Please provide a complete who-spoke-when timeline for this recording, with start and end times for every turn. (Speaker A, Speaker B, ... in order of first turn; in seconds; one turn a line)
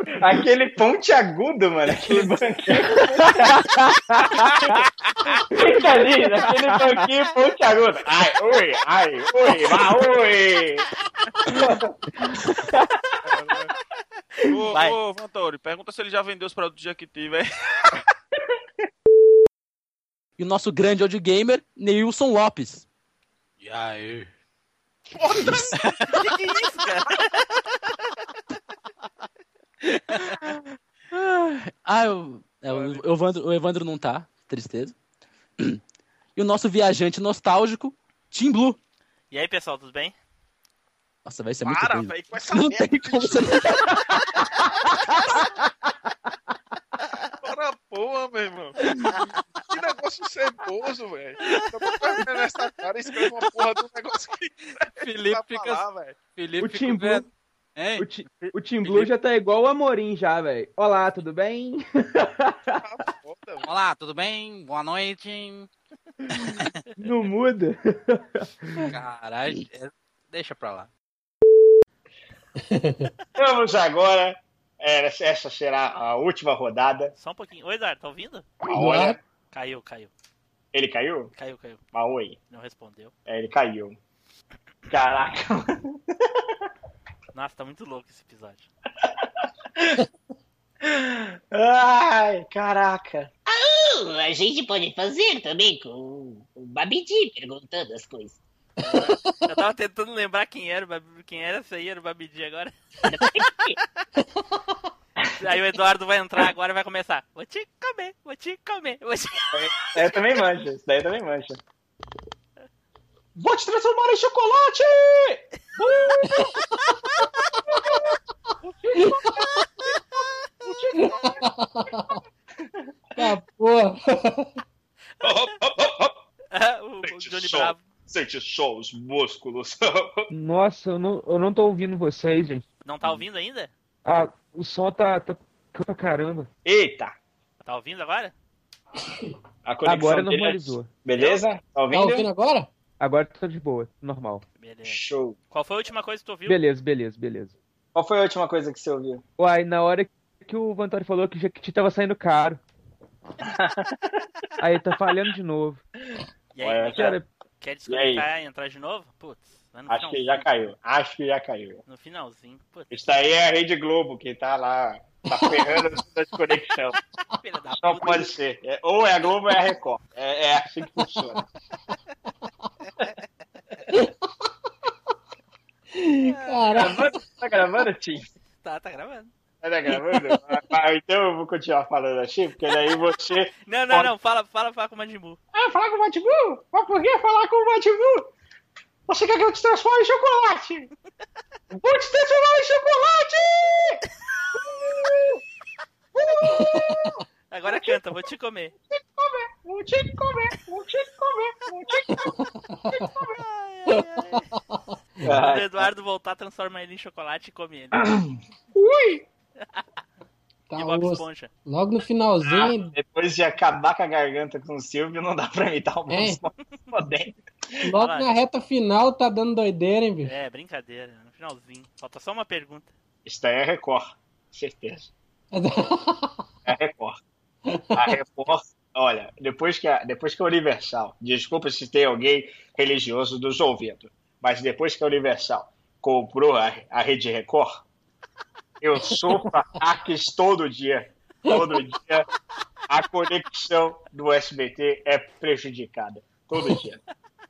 Speaker A: 0.2-3.6
Speaker B: 2.8-4.8
Speaker B: 5.4-7.0
Speaker A: 5.5-10.9
Speaker A: 11.4-11.9
Speaker C: 13.3-13.7
Speaker C: 14.4-17.9
Speaker D: 14.7-15.0
Speaker E: 20.4-22.9
Speaker F: 23.6-24.3
Speaker C: 25.1-25.8
Speaker F: 25.7-26.0
Speaker D: 26.1-27.3
Speaker E: 31.1-35.0
Speaker C: 32.7-33.0
Speaker E: 36.4-38.8
Speaker D: 39.3-40.2
Speaker E: 41.2-44.0
Speaker C: 41.6-43.7
Speaker C: 47.4-48.8
Speaker C: 49.6-56.2
Speaker F: 55.0-59.1
Speaker B: 56.6-57.3
Speaker B: 58.0-62.8
Speaker C: 62.8-63.7
Speaker F: 63.6-65.7
Speaker B: 67.0-68.9
Speaker F: 68.8-70.9
Speaker G: 72.6-73.1
Speaker A: 73.4-77.1
Speaker D: 77.2-78.5
Speaker G: 78.7-79.2
Speaker A: 78.7-79.2
Speaker D: 79.5-80.1
Speaker A: 80.7-81.3
Speaker D: 81.3-81.8
Speaker A: 81.9-82.4
Speaker D: 82.5-83.1
Speaker A: 83.3-84.0
Speaker A: 84.9-86.0
Speaker D: 87.3-88.7
Speaker A: 89.8-90.0
Speaker A: 90.8-93.3
Speaker H: 93.5-98.4
Speaker D: 98.8-102.7
Speaker H: 103.1-103.8
Speaker D: 105.4-110.0
Speaker A: 109.5-111.6
Speaker A: 113.4-116.5
Speaker G: 116.2-116.6
Speaker A: 117.7-118.0
Speaker A: 118.7-119.3
Speaker G: 118.9-119.6
Speaker A: 120.7-121.5
Speaker G: 121.0-122.2
Speaker G: 123.2-124.6
Speaker D: 125.2-125.5
Speaker A: 125.2-126.2
Speaker D: 126.5-127.8
Speaker A: 127.0-130.3
Speaker B: 130.3-132.7
Speaker D: 132.8-133.7
Speaker B: 134.1-136.5
Speaker A: 136.7-137.2
Speaker D: 137.6-138.3
Speaker A: 139.7-142.3
Speaker B: 139.8-140.9
Speaker D: 141.2-141.4
Speaker G: 141.9-142.7
Speaker B: 143.0-144.4
Speaker D: 144.6-146.6
Speaker A: 144.8-145.4
Speaker B: 146.5-147.6
Speaker A: 147.9-149.2
Speaker B: 149.4-152.6
Speaker A: 153.4-154.2
Speaker B: 154.6-155.8
Speaker D: 156.6-160.5
Speaker A: 156.6-157.2
Speaker B: 156.9-157.3
Speaker A: 157.9-158.3
Speaker A: 159.9-161.8
Speaker D: 161.9-162.9
Speaker A: 162.9-167.0
Speaker G: 165.4-165.8
Speaker D: 167.4-168.3
Speaker A: 167.7-171.4
Speaker G: 175.9-177.2
Speaker D: 176.2-176.8
Speaker A: 176.7-178.3
Speaker D: 178.6-179.3
Speaker A: 179.6-184.1
Speaker D: 183.7-185.4
Speaker A: 185.5-188.3
Speaker A: 189.1-190.9
Speaker A: 191.7-194.0
Speaker A: 194.6-195.4
Speaker A: 196.2-197.9
Speaker G: 196.4-197.2
Speaker D: 197.5-198.7
Speaker A: 199.2-202.3
Speaker G: 202.2-203.1
Speaker A: 203.0-203.3
Speaker D: 203.4-204.5
Speaker G: 203.9-205.2
Speaker D: 205.2-208.0
Speaker A: 205.2-205.9
Speaker A: 207.9-209.2
Speaker G: 210.7-212.9
Speaker D: 210.8-211.5
Speaker A: 212.4-217.4
Speaker G: 216.1-216.4
Speaker G: 217.8-220.3
Speaker D: 218.0-218.4
Speaker D: 220.2-222.9
Speaker A: 223.2-225.1
Speaker G: 225.5-226.4
Speaker A: 226.7-227.2
Speaker G: 227.7-228.2
Speaker A: 227.9-237.7
Speaker A: 238.8-242.3
Speaker G: 241.5-241.8
Speaker A: 242.9-247.0